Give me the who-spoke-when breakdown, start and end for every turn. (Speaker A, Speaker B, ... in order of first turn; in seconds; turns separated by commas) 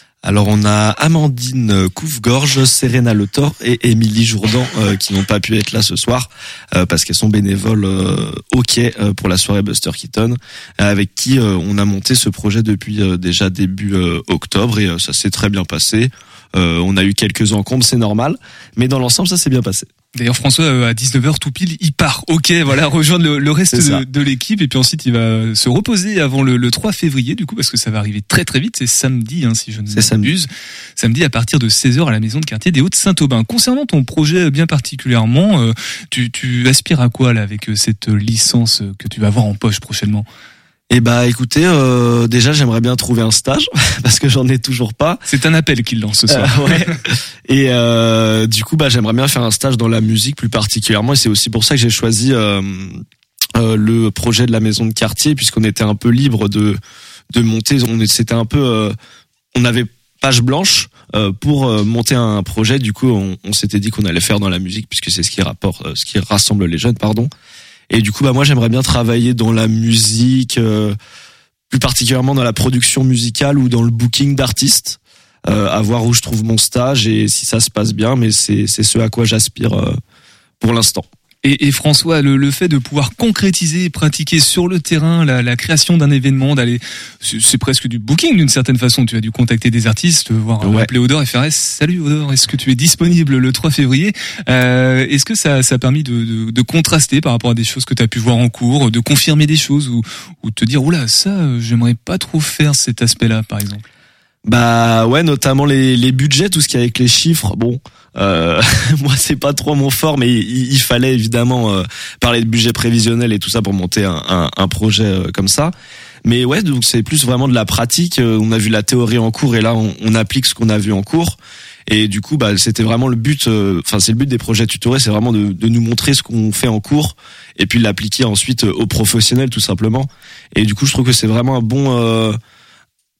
Speaker A: 0.2-19.9, Speaker B: 20.1-40.3, Speaker A: 23.7-24.0, Speaker A: 29.9-30.3, Speaker A: 40.9-45.2, Speaker B: 45.2-46.9, Speaker A: 46.3-53.0, Speaker A: 53.5-56.8, Speaker A: 57.3-59.0, Speaker A: 59.5-67.3, Speaker A: 67.9-71.0, Speaker A: 71.7-80.0, Speaker A: 80.6-81.1, Speaker B: 81.4-103.8, Speaker A: 90.6-90.9, Speaker A: 104.5-115.7, Speaker A: 116.2-132.4